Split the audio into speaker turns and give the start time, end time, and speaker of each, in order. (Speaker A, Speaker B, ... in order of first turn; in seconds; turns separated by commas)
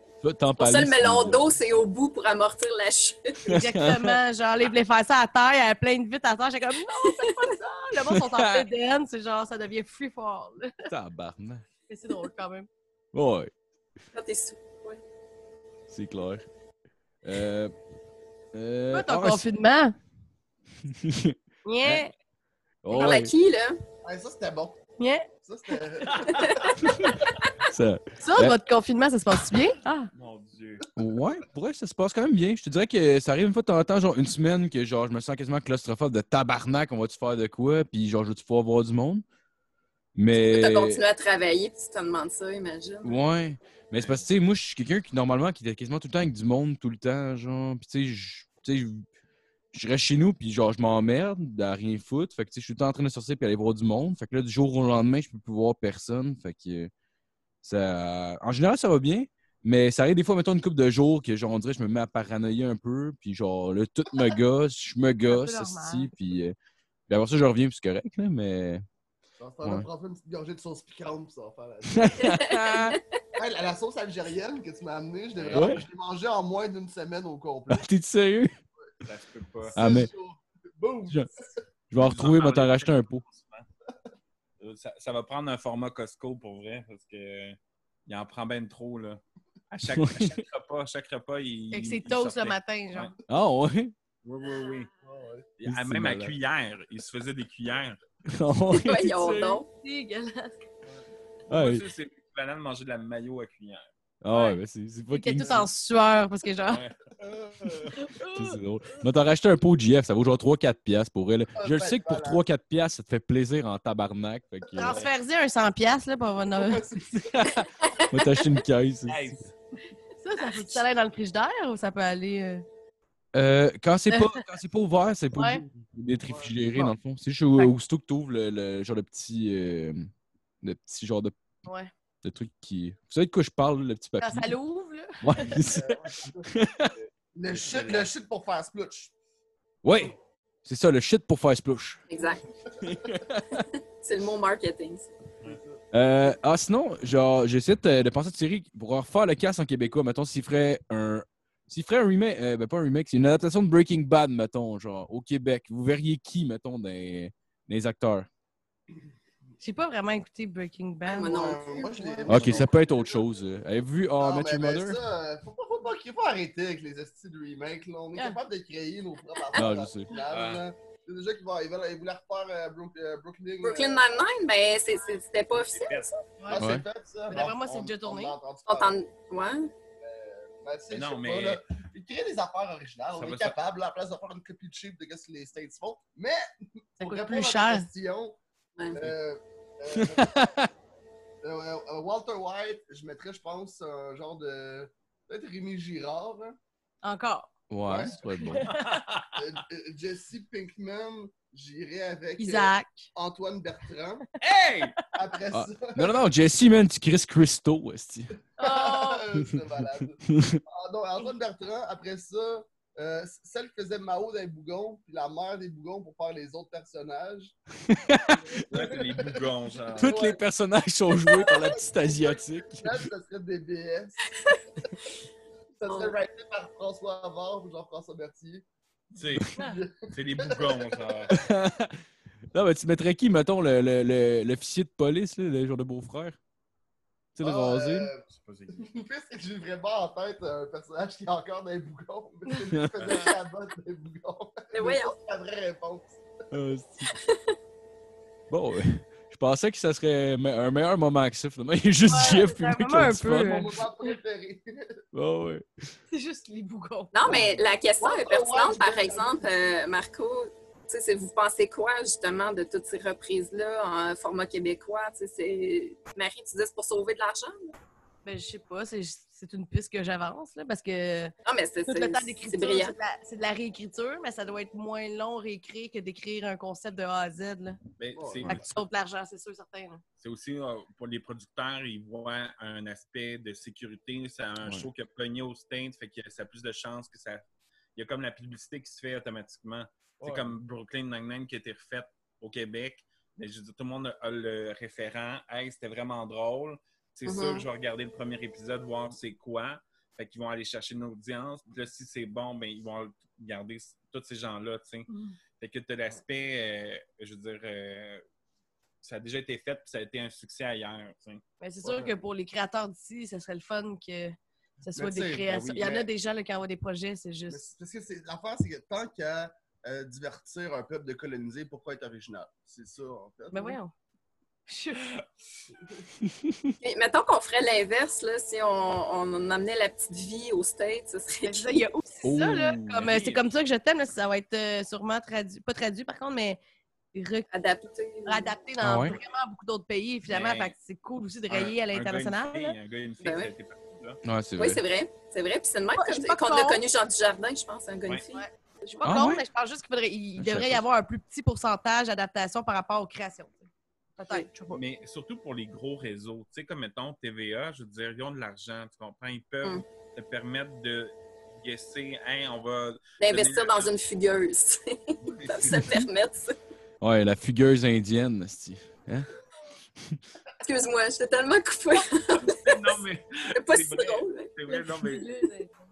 Speaker A: 0.2-1.5, Speaker B: 0.6-3.4, Speaker A: 3.5-4.2, Speaker C: 3.5-10.9, Speaker B: 7.0-7.5, Speaker A: 8.0-8.7, Speaker A: 10.9-11.6, Speaker C: 11.9-12.7, Speaker A: 13.1-13.5, Speaker B: 14.1-15.0, Speaker A: 15.9-16.5, Speaker A: 17.2-17.7, Speaker A: 18.5-19.4, Speaker C: 18.9-19.9, Speaker A: 20.8-22.1, Speaker C: 21.6-22.1, Speaker A: 22.8-23.3, Speaker B: 22.9-23.8, Speaker C: 22.9-23.2, Speaker D: 24.0-24.8, Speaker C: 25.0-25.3, Speaker D: 25.4-26.8, Speaker E: 26.1-26.6, Speaker B: 26.2-27.3, Speaker A: 27.7-28.6, Speaker C: 28.2-30.1, Speaker E: 30.1-30.9, Speaker A: 30.9-39.2, Speaker A: 40.1-41.0, Speaker B: 40.3-43.2, Speaker A: 43.0-49.0, Speaker A: 49.7-56.9, Speaker A: 57.6-66.5, Speaker C: 65.2-66.1, Speaker A: 67.1-68.8, Speaker D: 69.4-72.4, Speaker A: 71.9-73.0, Speaker B: 72.2-73.0, Speaker D: 73.3-77.9, Speaker E: 75.3-75.8, Speaker A: 75.5-75.8, Speaker A: 77.7-78.6, Speaker E: 79.0-79.8, Speaker D: 79.6-81.6, Speaker A: 79.7-80.1, Speaker A: 81.9-83.2, Speaker E: 82.0-83.7, Speaker E: 84.6-93.1, Speaker A: 89.9-90.4, Speaker C: 91.7-93.1, Speaker A: 93.3-93.9, Speaker E: 94.2-94.9, Speaker D: 95.0-95.5, Speaker E: 95.6-98.0, Speaker A: 95.6-96.3, Speaker A: 98.3-99.6, Speaker B: 98.7-99.7, Speaker C: 99.7-100.5, Speaker E: 101.5-103.9, Speaker A: 101.5-101.8, Speaker A: 104.2-105.7, Speaker C: 104.3-104.6, Speaker C: 105.1-106.8, Speaker E: 106.6-108.0, Speaker D: 107.2-107.8, Speaker C: 107.9-108.6, Speaker A: 108.3-115.0, Speaker D: 111.6-112.4, Speaker C: 114.7-116.8, Speaker E: 114.8-115.1, Speaker D: 116.5-117.5, Speaker A: 117.1-119.4, Speaker E: 119.1-119.5, Speaker C: 120.2-122.6, Speaker A: 123.3-130.1, Speaker C: 124.1-124.4, Speaker C: 125.3-125.6, Speaker A: 130.6-131.4, Speaker C: 131.6-131.9, Speaker A: 132.2-134.6, Speaker C: 134.2-135.5, Speaker A: 135.2-136.9, Speaker D: 135.6-136.6, Speaker D: 137.3-139.1, Speaker E: 137.5-138.1, Speaker A: 139.8-142.0, Speaker B: 142.1-142.4, Speaker A: 142.8-143.7, Speaker B: 144.0-145.1, Speaker D: 145.4-145.8, Speaker A: 145.9-158.3, Speaker C: 159.6-162.3, Speaker B: 161.0-162.2, Speaker D: 161.2-163.2, Speaker A: 162.3-165.0, Speaker D: 164.2-174.2, Speaker A: 169.5-170.1, Speaker E: 170.3-170.6, Speaker B: 173.6-176.2, Speaker E: 175.5-176.1, Speaker D: 176.5-179.0, Speaker A: 176.6-176.8, Speaker C: 177.3-178.3, Speaker B: 178.7-179.7, Speaker D: 180.0-188.4, Speaker E: 180.9-181.6, Speaker E: 183.1-183.6, Speaker C: 187.0-187.8, Speaker B: 188.8-189.0, Speaker D: 188.9-190.5, Speaker A: 189.9-190.7, Speaker D: 191.4-196.6, Speaker C: 197.0-197.5, Speaker A: 197.7-198.7, Speaker D: 197.9-198.2, Speaker C: 198.4-199.0, Speaker E: 198.7-199.4, Speaker D: 199.3-204.2, Speaker C: 202.4-203.1, Speaker E: 204.4-205.0, Speaker D: 205.1-206.2, Speaker A: 205.5-208.3, Speaker D: 208.6-217.5, Speaker C: 208.6-209.3, Speaker A: 210.3-210.6, Speaker A: 217.8-218.6, Speaker D: 218.5-220.4, Speaker E: 218.7-220.2, Speaker A: 220.0-223.0, Speaker D: 221.2-224.3, Speaker D: 225.8-228.6, Speaker B: 225.9-226.1, Speaker E: 229.1-231.4, Speaker D: 229.5-231.3, Speaker A: 231.3-232.0, Speaker A: 232.5-236.4, Speaker A: 237.3-238.1, Speaker D: 237.4-246.2, Speaker E: 238.3-238.9, Speaker E: 243.0-243.3, Speaker B: 244.7-245.1, Speaker A: 246.5-247.1, Speaker B: 247.1-247.5, Speaker A: 248.5-253.7, Speaker C: 252.0-254.1, Speaker D: 253.3-255.0, Speaker A: 255.1-255.9, Speaker C: 256.1-257.3, Speaker B: 257.1-267.7, Speaker D: 257.2-259.5, Speaker C: 268.2-271.3, Speaker B: 271.4-272.9, Speaker C: 271.9-277.8, Speaker E: 278.0-278.7, Speaker D: 278.1-278.6, Speaker C: 278.4-280.0, Speaker E: 280.2-287.4, Speaker E: 287.9-308.2, Speaker B: 297.3-297.6, Speaker C: 305.1-305.4, Speaker E: 309.0-311.4, Speaker C: 311.6-317.6, Speaker D: 311.8-312.2, Speaker D: 314.9-316.1, Speaker D: 317.5-323.8, Speaker C: 323.5-323.9, Speaker C: 324.7-325.1, Speaker A: 326.2-326.7, Speaker B: 326.8-331.7, Speaker C: 331.4-336.6, Speaker A: 332.2-332.7, Speaker E: 332.6-333.4, Speaker C: 337.1-337.4, Speaker B: 337.5-338.5, Speaker C: 338.2-342.8, Speaker A: 338.8-339.2, Speaker E: 340.3-340.7, Speaker E: 341.5-344.2, Speaker B: 343.2-343.5, Speaker A: 344.2-344.8, Speaker B: 344.6-349.1, Speaker C: 345.9-346.8, Speaker C: 348.3-354.8, Speaker A: 349.0-349.4, Speaker A: 350.4-350.8, Speaker E: 354.7-363.9, Speaker B: 363.2-366.6, Speaker E: 365.2-366.0, Speaker A: 367.0-369.3, Speaker B: 370.6-373.0, Speaker E: 372.4-375.4, Speaker B: 373.5-374.8, Speaker C: 374.9-375.7